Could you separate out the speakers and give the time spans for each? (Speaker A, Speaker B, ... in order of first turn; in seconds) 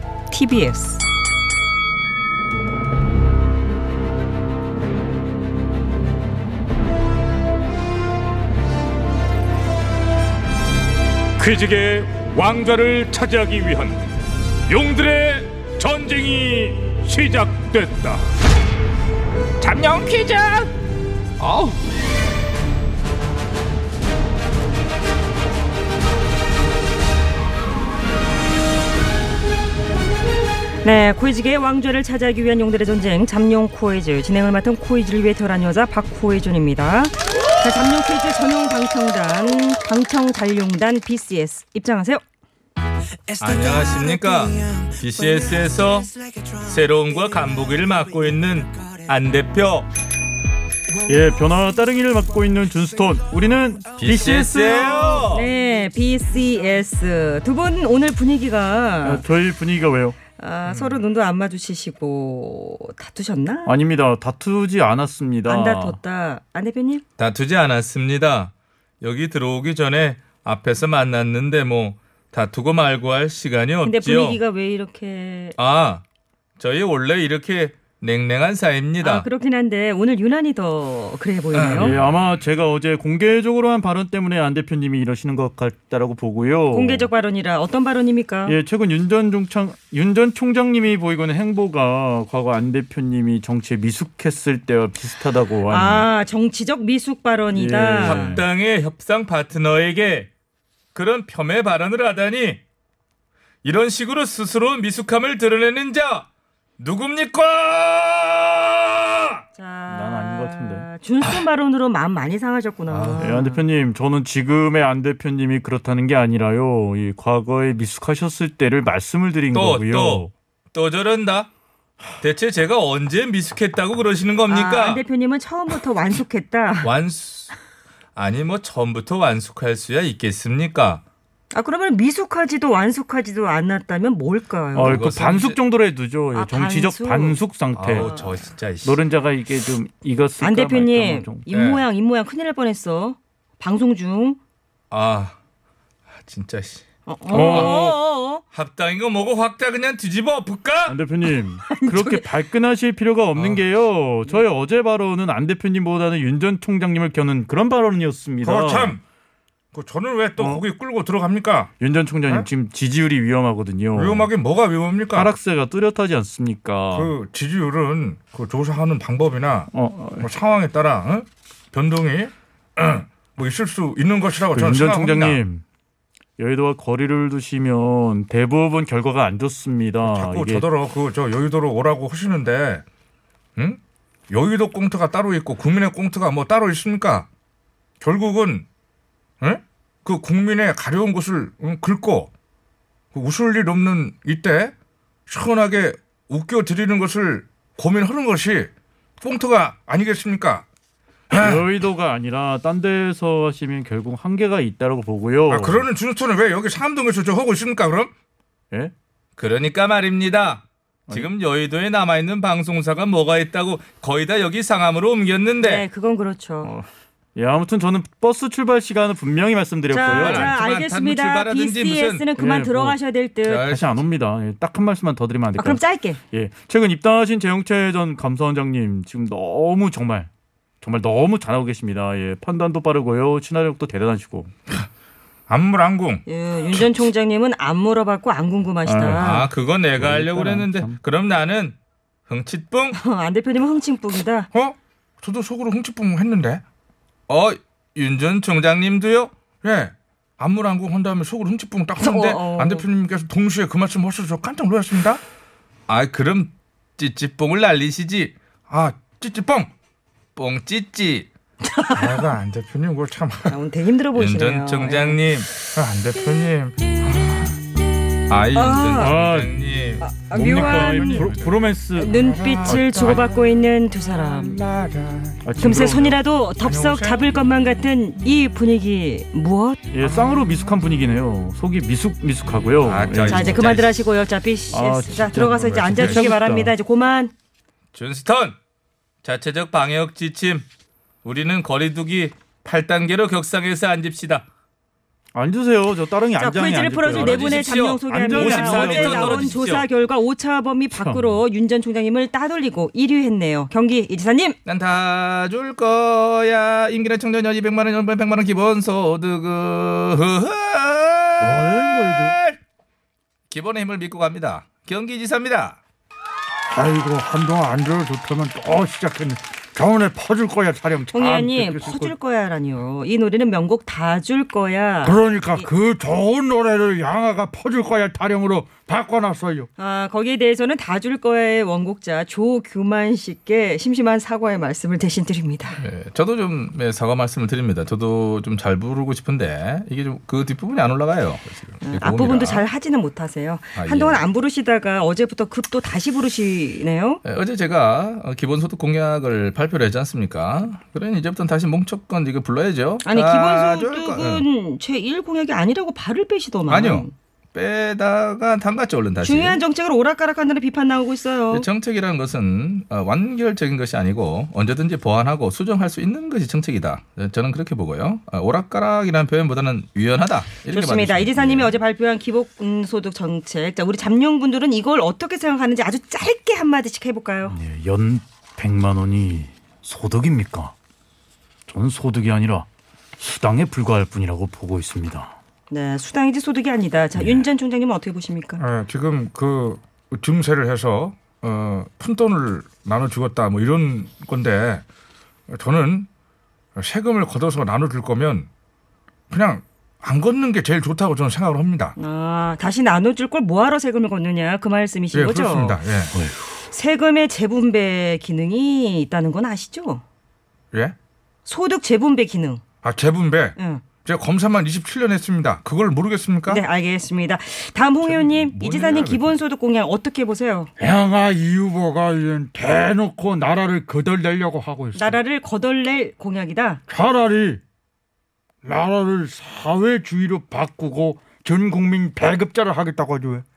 Speaker A: 0.3-1.0, 30.8-42.2, 55.3-59.2, 60.4-63.8, 65.5-67.0, 73.8-75.6, 79.0-82.0, 86.7-88.6, 95.7-98.4, 109.5-113.6, 124.5-126.9, 131.5-135.0, 136.3-138.4, 140.4-144.4, 147.1-148.4, 151.6-152.3, 215.6-216.7, 219.9-223.7, 225.6-226.2, 236.2-239.5, 242.9-244.5, 252.0-252.9, 261.6-262.3, 263.5-265.3, 268.5-269.1, 270.0-271.3, 271.9-274.6, 275.6-279.9, 283.2-287.3, 296.4-304.6, 321.1-325.7, 329.8-335.8, 341.8-347.2, 353.0-357.1, 359.2-361.6, 370.7-377.6, 385.7-388.6, 401.9-405.8, 406.6-410.0, 411.4-412.6, 413.6-413.8, 416.5-420.7, 424.9-426.8
Speaker B: 11.4-13.9, 14.7-18.2, 19.6-20.7, 21.4-21.8, 43.4-49.9, 54.0-55.5, 67.2-74.4, 75.6-76.0, 76.6-79.3, 81.5-82.0, 98.0-100.3, 100.9-102.6, 103.6-106.2, 106.8-109.4, 112.9-113.3, 119.5-121.5, 122.2-125.0, 126.8-127.5, 128.2-131.0, 134.8-135.6, 137.7-139.0, 141.5-141.8, 144.9-145.3, 146.2-146.8, 147.3-147.8, 148.5-150.9, 209.4-215.8, 220.0-222.2, 223.4-224.0, 239.1-241.8, 242.3-243.0, 247.3-249.3, 255.9-258.3, 260.4-261.3, 264.1-265.5, 268.3-270.0, 282.8-283.9, 287.9-288.6, 289.2-290.6, 291.2-294.4, 297.1-299.9, 304.6-312.6, 313.5-315.8, 335.8-342.6, 343.7-344.2, 347.2-354.4, 356.7-359.6, 361.5-371.8, 418.1-419.3
Speaker C: 51.0-55.2, 59.0-60.2, 63.6-66.0, 81.8-87.1, 88.4-96.1, 97.5-98.4, 109.9-110.9, 113.2-120.3, 134.7-138.1, 138.8-141.5, 147.3-147.9, 150.9-159.0, 160.4-160.6, 161.8-164.3, 165.1-167.1, 169.7-170.3, 174.5-175.6, 176.4-180.7, 201.3-205.8, 211.1-211.3, 216.6-220.5, 222.3-223.0, 223.6-230.3, 230.8-234.5, 238.8-239.4, 239.9-241.0, 269.0-269.5, 270.2-273.3, 275.4-276.2, 279.9-283.7, 284.7-286.7, 295.3-299.5, 300.9-301.3, 377.5-380.7, 381.7-382.7, 383.2-385.3, 387.1-387.4, 406.1-406.4
Speaker D: 158.4-159.0, 159.7-161.7, 163.9-165.3, 166.9-175.4, 180.0-182.8, 183.6-187.3, 188.0-188.7, 189.4-192.3, 193.1-194.7, 195.3-198.7, 199.2-200.7, 201.3-201.7, 205.5-208.1, 235.5-236.2, 244.5-246.6, 249.6-255.2, 258.7-259.7, 261.9-263.6, 265.6-267.5, 270.5-271.5, 276.7-277.2, 285.9-286.3, 388.6-394.8, 395.5-396.1, 396.8-398.5, 399.3-401.9, 405.1-406.1, 412.8-416.6
Speaker E: 274.7-275.3, 311.4-312.3, 316.7-322.1, 325.0-329.7, 420.8-425.2, 426.9-427.6, 428.6-433.4